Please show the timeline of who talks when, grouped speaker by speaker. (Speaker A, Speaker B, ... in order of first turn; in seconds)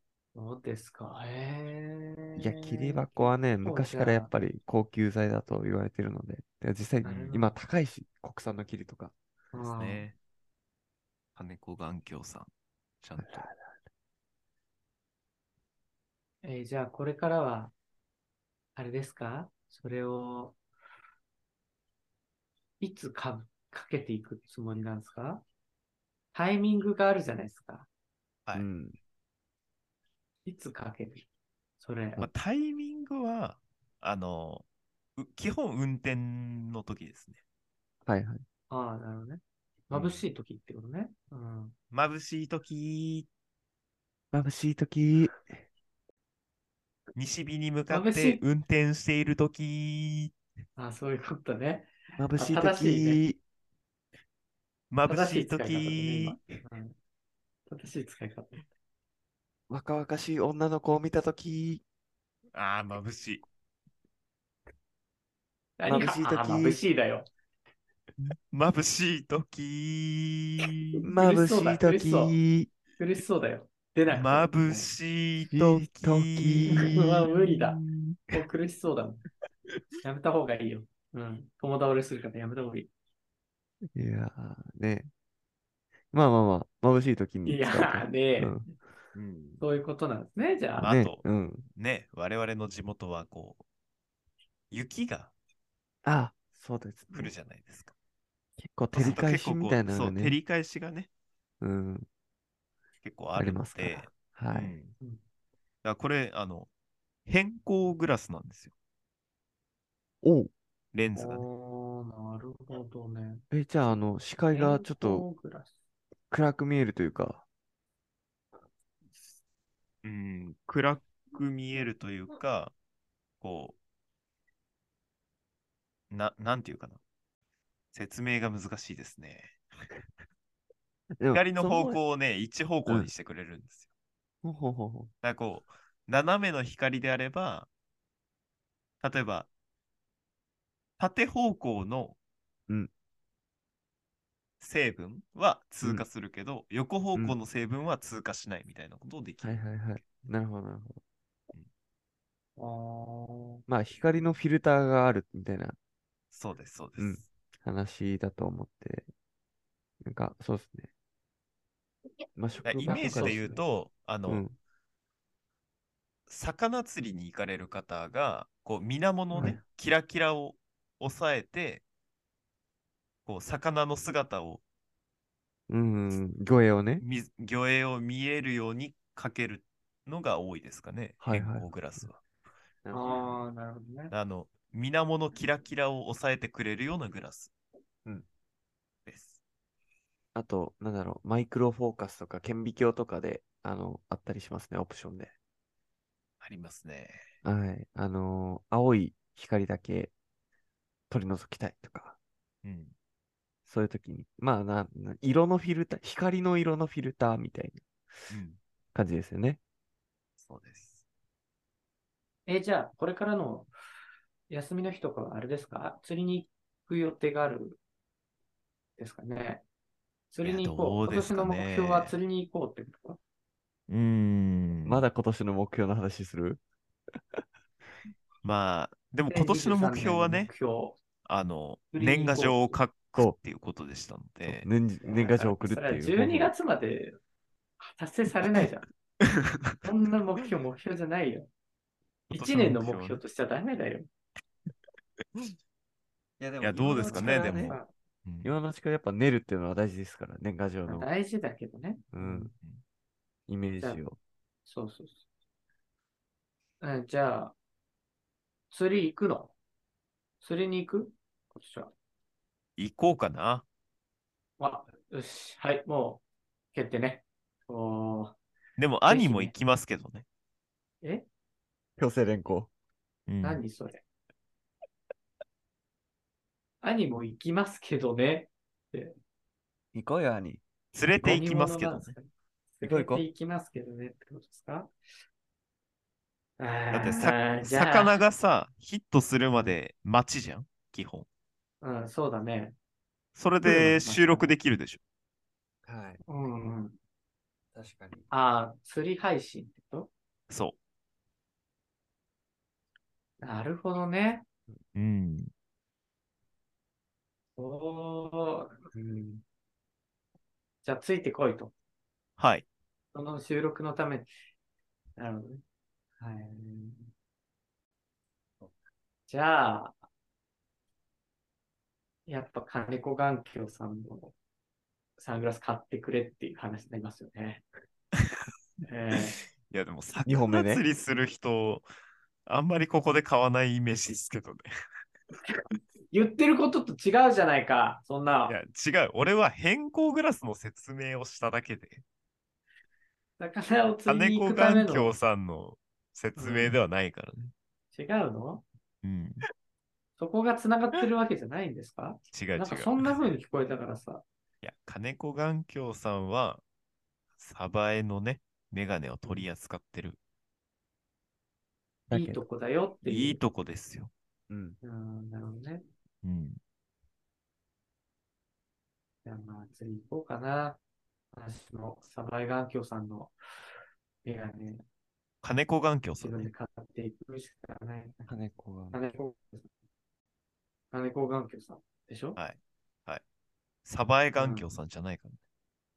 Speaker A: 0.3-3.0, 3.6-4.3, 7.0-7.5, 9.5-10.1, 16.4-17.7, 18.8-20.6, 22.8-25.4, 26.3-27.9, 30.4-31.3, 31.8-32.2, 38.7-41.7, 47.9-48.4, 50.8-53.2, 55.1-56.9, 57.7-58.6, 65.8-67.3, 71.2-72.4, 73.0-74.9, 76.7-79.2, 80.0-82.9, 87.5-88.6, 89.6-90.9, 111.2-113.4, 114.5-115.7, 152.6-153.6, 162.8-163.6, 169.3-169.6, 182.9-184.1, 212.5-213.7, 214.5-217.8, 219.0-219.6, 220.3-223.2, 229.3-231.0, 231.9-232.7, 235.0-237.2, 237.8-238.9, 239.8-241.5, 242.3-244.1, 246.8-247.9, 250.9-252.5, 254.6-255.2, 256.8-257.5, 258.7-259.5, 260.4-261.9, 264.6-266.2, 266.7-268.4, 269.1-269.5, 273.4-274.0, 276.8-279.1, 281.2-284.9, 286.6-288.2, 291.8-292.8, 293.6-294.5, 296.3-297.0, 298.3-300.1, 303.4-304.4, 307.6-309.4, 310.8-311.7, 313.1-314.3, 315.2-315.6, 316.2-317.1, 319.3-320.0, 322.2-324.3, 325.2-327.6, 328.8-329.4, 336.1-338.6, 343.4-345.1, 346.4-346.8, 347.9-348.6, 350.2-354.2, 362.1-363.4, 364.8-365.8, 369.2-370.8, 371.3-373.3, 374.2-374.8, 376.2-378.3, 378.9-379.7, 380.9-382.4, 384.4-384.6
Speaker B: 2.4-9.1, 13.2-13.6, 28.5-29.0, 38.0-38.4, 44.3-45.4, 52.2-53.4, 59.7-61.8, 65.8-66.8, 71.0-72.7, 75.5-76.9, 83.9-85.1, 86.1-88.7, 90.8-91.7, 96.0-97.3, 98.6-100.4, 101.6-102.1, 103.3-104.7, 110.2-110.5, 113.5-115.2, 116.3-117.4, 131.2-132.0, 134.4-135.1, 149.4-151.0, 153.7-155.8, 157.0-159.1, 160.0-160.9, 162.3-163.4, 164.3-164.5, 175.7-177.0, 181.2-181.7, 182.8-183.4, 190.3-195.3, 197.4-200.1, 201.1-202.2, 203.7-207.8, 208.9-209.6, 224.8-226.6, 234.4-236.5, 246.4-247.8, 248.4-251.1, 252.1-252.5, 253.5-254.2, 272.0-272.7, 279.9-280.6, 282.8-283.2, 295.8-296.2, 297.7-298.3, 330.2-330.8, 362.1-362.4, 364.5-364.8, 378.3-379.0
Speaker C: 9.6-10.2, 11.3-12.5, 13.0-13.5, 32.2-34.6, 35.2-37.4, 39.9-40.2, 41.9-43.3, 47.1-50.3, 54.9-56.5, 62.5-63.4, 68.2-71.0, 74.1-78.3, 89.1-89.6, 90.8-93.6, 94.7-95.3, 97.1-97.9, 98.9-101.1, 103.0-105.0, 105.8-106.7, 107.2-108.7, 110.9-111.5, 120.0-122.7, 123.4-123.8, 126.1-127.0, 127.9-129.6, 131.3-133.9, 135.2-137.7, 139.0-139.5, 141.0-142.2, 144.6-150.2, 156.3-157.2, 162.6-164.4, 166.3-171.8, 173.2-174.6, 177.0-182.2, 184.1-187.5, 189.1-189.4, 196.4-197.3, 202.6-202.9, 208.3-208.6, 210.4-211.0, 220.4-222.2, 223.9-225.0, 228.4-230.5, 231.2-234.7, 239.2-239.8, 242.3-243.2, 246.6-248.5, 262.8-263.6, 268.8-270.2, 273.3-273.6, 280.9-282.1, 286.9-291.2, 293.3-295.0, 300.5-300.8, 304.9-305.5, 312.4-312.6, 329.1-331.9, 332.4-334.7, 338.5-342.0, 344.1-347.5, 349.0-349.4, 352.3-353.3, 354.6-356.6, 357.4-360.2, 363.0-364.1, 366.2-366.6, 375.4-376.5, 382.4-383.2, 383.8-385.4